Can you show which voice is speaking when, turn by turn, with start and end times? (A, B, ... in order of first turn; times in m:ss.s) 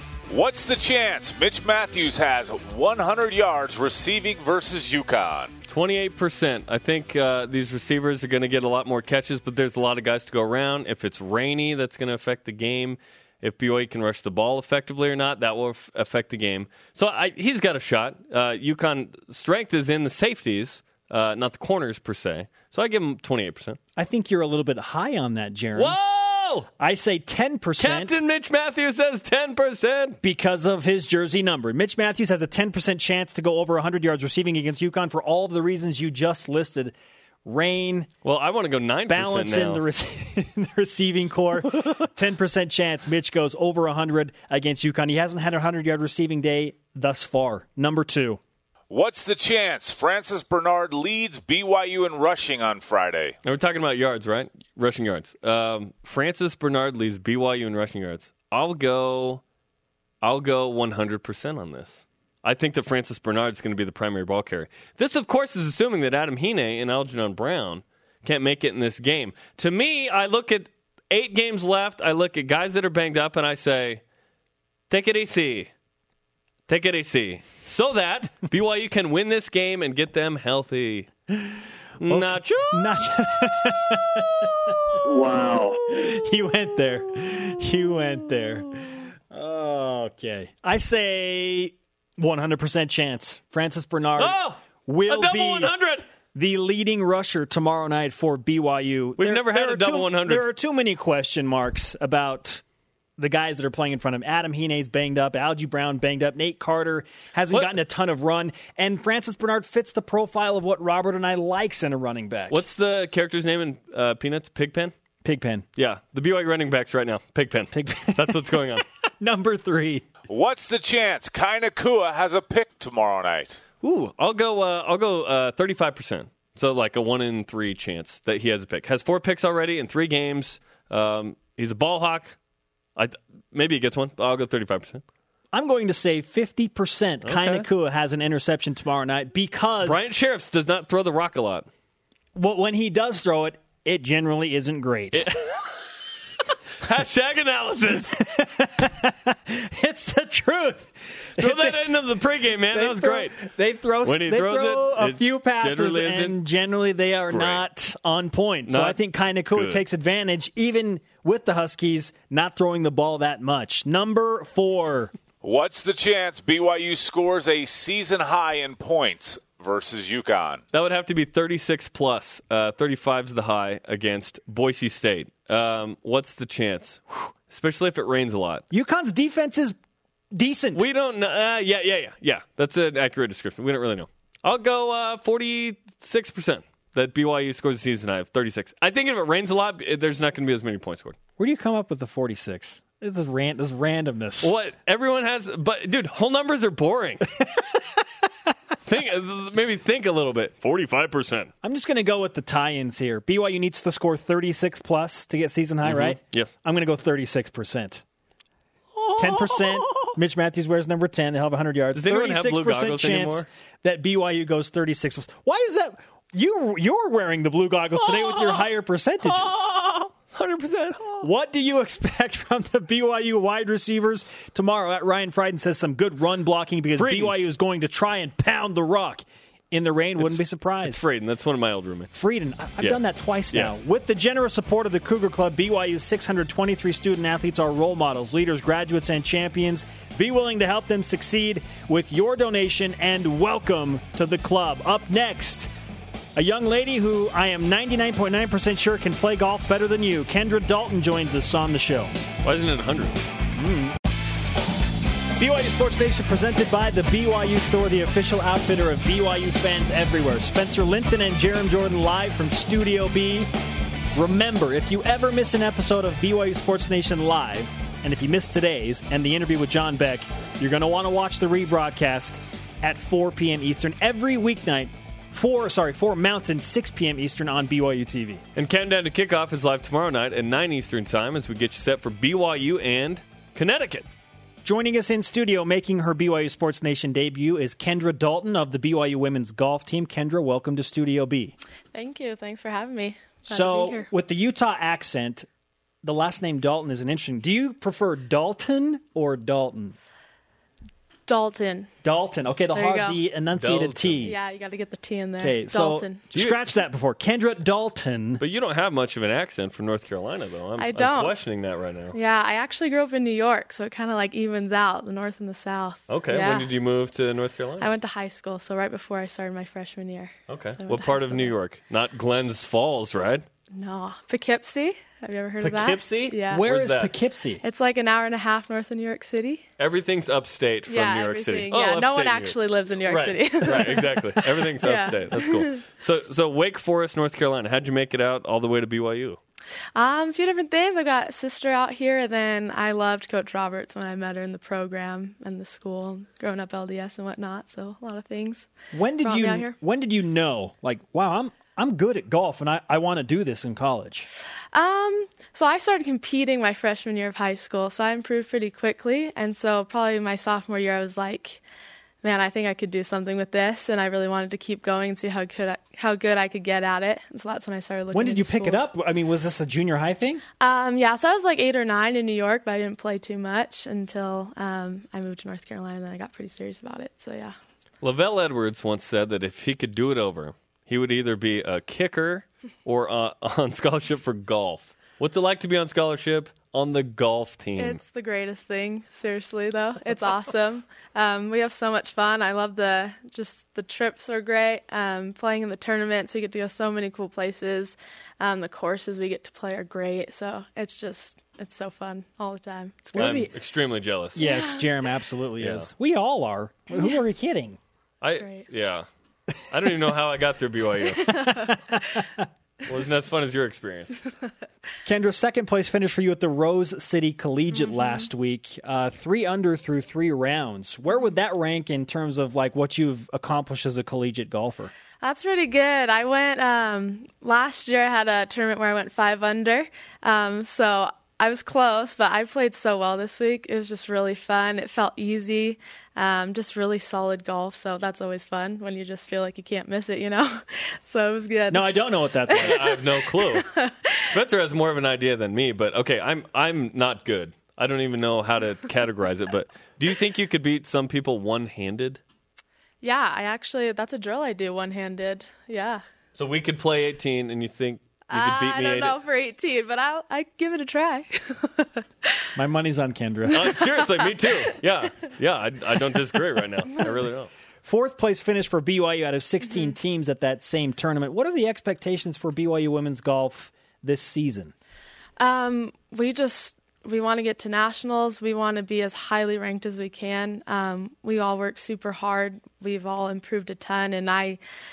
0:00.3-0:05.5 A
0:05.7-0:23.8 B
0:24.0-0:26.0 C
0:25.8-0:26.7 B
0:26.8-0:28.2 C
0:27.8-0:30.2 B
0:30.2-0:36.9 C
0:37.4-0:38.1 C
0:38.2-0:39.8 B
0:39.1-0:48.4 C
0:48.9-0:53.4 A
0:53.4-0:59.4 B
1:00.2-1:14.0 B
1:14.9-1:15.7 B
1:16.7-1:21.1 B
1:22.0-1:23.1 B
1:22.1-1:24.8 C
1:25.0-1:26.1 B
1:25.9-1:35.7 C
1:34.2-1:36.0 B
1:36.3-1:42.6 C
1:39.2-1:40.5 B
1:43.2-1:52.6 C
1:52.5-1:54.9 B
1:55.2-1:55.7 C
1:55.8-1:58.8 B
1:57.7-1:58.6 C
1:59.2-2:00.0 C
2:00.3-2:03.6 A
2:03.8-2:12.4 B
2:13.0-2:15.0 B
2:15.5-2:20.0 C
2:17.2-2:17.7 B
2:19.8-2:21.7 B
2:22.4-2:25.3 C
2:25.1-2:25.8 B
2:26.8-2:28.2 B
2:28.2-2:31.8 C
2:31.4-2:33.4 B
2:32.7-2:45.1 C
2:34.0-2:36.4 B
2:37.3-2:37.6 B
2:38.7-2:39.0 B
2:39.5-2:39.8 B
2:45.4-2:50.6 A
2:50.7-2:58.6 B
2:58.7-2:59.8 C
3:00.3-3:00.8 C
3:00.8-3:11.2 B
3:11.4-3:14.5 C
3:14.4-3:17.3 B
3:18.8-3:21.5 B
3:21.6-3:28.0 C
3:25.8-3:26.5 B
3:29.0-3:30.2 B
3:29.2-3:39.7 C
3:32.0-3:33.5 B
3:38.0-3:38.7 B
3:39.2-3:41.3 B
3:41.2-3:51.0 C
3:47.0-3:47.3 B
3:50.2-3:52.1 B
3:52.1-4:05.7 C
4:06.4-4:12.1 C
4:12.4-4:13.2 B
4:13.6-4:14.0 C
4:15.4-4:23.5 C
4:24.2-4:38.4 C
4:38.6-4:44.0 B
4:44.6-4:51.6 C
4:51.9-4:54.1 D
4:53.4-4:55.5 C
4:56.0-5:00.0 C
5:01.3-5:01.9 D
5:02.0-5:04.4 C
5:02.7-5:03.2 D
5:03.6-5:04.3 B
5:04.2-5:06.2 D
5:05.4-5:08.4 C
5:06.3-5:06.7 B
5:08.4-5:12.2 B
5:10.8-5:11.4 D
5:12.1-5:16.7 D
5:16.1-5:17.9 B
5:17.8-5:21.6 D
5:20.5-5:23.5 B
5:23.7-5:26.6 D
5:25.6-5:27.1 B
5:26.5-5:27.6 C
5:27.6-5:29.6 D
5:29.8-5:39.4 B
5:30.9-5:35.8 D
5:40.0-5:48.7 D
5:48.9-5:54.3 C
5:49.2-5:49.7 D
5:54.7-6:01.6 D
6:02.2-6:08.9 D
6:08.1-6:10.4 C
6:10.6-6:17.6 D
6:18.0-6:28.0 B
6:27.8-6:43.4 D
6:43.1-6:43.5 C
6:43.2-6:44.4 B
6:44.4-6:47.8 C
6:44.4-6:44.9 D
6:45.6-6:45.9 B
6:48.2-6:49.1 B
6:48.3-6:48.7 D
6:49.7-6:51.6 B
6:51.2-6:51.5 D
6:51.6-6:52.0 C
6:52.9-6:54.2 B
6:55.0-7:04.9 C
6:57.8-6:58.2 D
7:05.2-7:24.3 D
7:21.7-7:22.9 C
7:22.6-7:32.2 B
7:33.0-7:36.0 D
7:36.4-7:39.2 B
7:38.3-7:42.0 D
7:42.6-7:43.7 C
7:43.5-7:47.5 B
7:47.8-7:54.7 C
7:55.4-8:04.6 D